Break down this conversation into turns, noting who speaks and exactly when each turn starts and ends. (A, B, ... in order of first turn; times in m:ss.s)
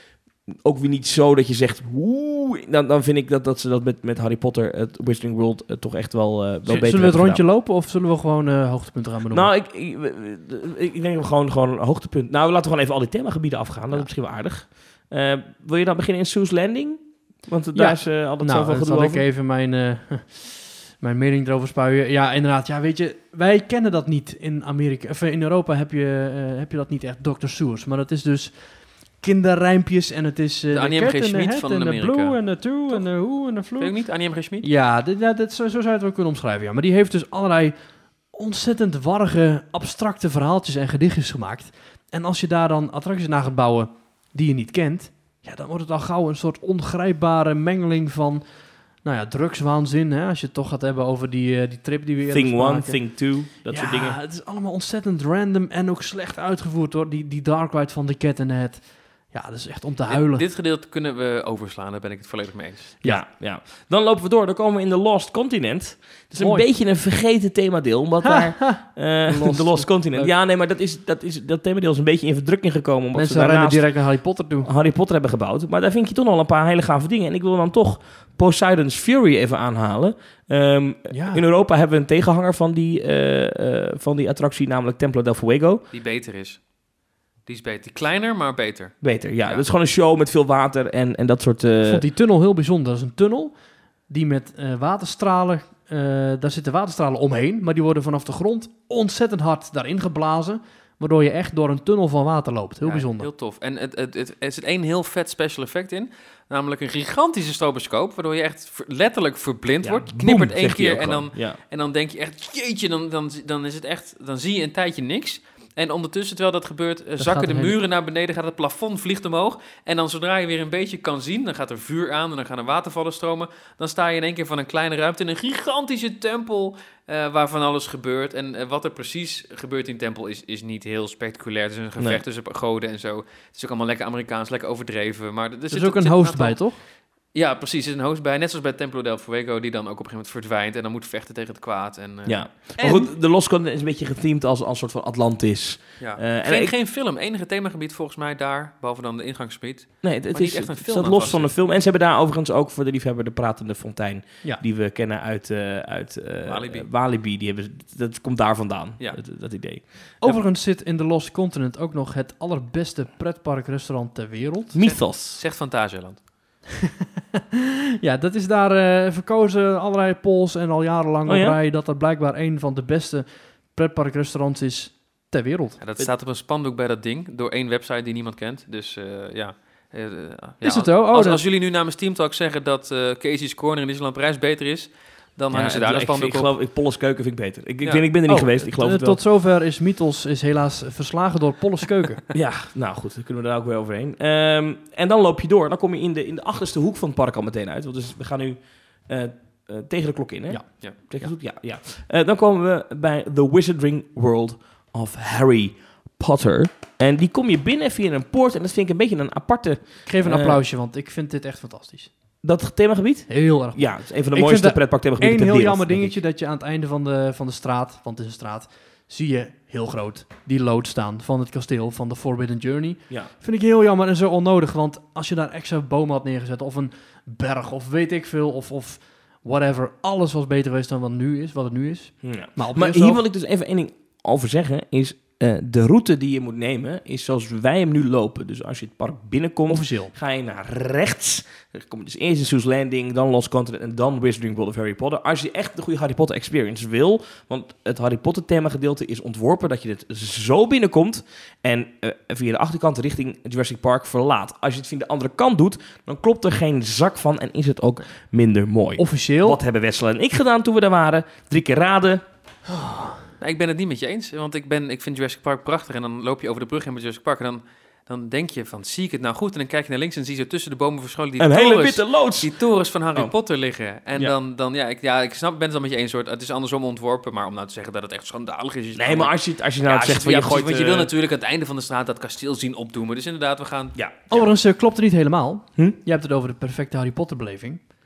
0:00.5-0:07.4 A
0:06.7-0:09.5 B
0:09.3-0:19.2 A
0:17.7-0:34.0 B
0:30.7-0:33.1 C
0:33.8-0:34.7 C
0:34.6-0:37.8 B
0:38.3-0:48.4 B
0:49.0-0:53.0 B
0:52.3-0:54.2 A
0:53.7-1:00.4 B
1:00.1-1:03.0 C
1:03.0-1:13.9 A
1:06.4-1:06.7 B
1:08.2-1:10.3 B
1:13.1-1:14.7 B
1:14.6-1:25.8 A
1:21.1-1:21.4 B
1:25.9-1:26.7 C
1:27.5-1:29.6 C
1:29.0-1:32.0 A
1:31.8-1:33.6 B
1:34.1-1:43.3 B
1:42.8-2:16.6 C
1:49.8-1:51.6 A
1:57.2-1:57.8 B
2:15.7-2:16.8 B
2:17.3-2:23.0 C
2:22.3-2:26.7 A
2:22.8-2:23.1 B
2:26.0-2:31.5 C
2:30.0-2:39.8 A
2:36.4-2:36.9 C
2:40.2-2:44.8 B
2:44.7-2:45.4 A
2:44.8-2:46.2 C
2:48.0-2:55.8 B
2:51.3-2:51.6 A
2:55.8-3:06.5 C
3:00.6-3:01.4 B
3:05.5-3:09.2 A
3:08.3-3:12.2 B
3:12.3-3:30.6 A
3:30.1-3:32.1 B
3:32.4-3:36.2 A
3:33.3-3:53.2 B
3:52.2-4:22.2 A
3:59.7-4:00.1 B
4:19.0-4:19.6 B
4:22.7-4:23.2 B
4:23.4-4:44.0 C
4:31.4-4:32.5 A
4:39.0-4:41.1 A
4:44.0-4:44.4 A
4:44.3-4:47.8 B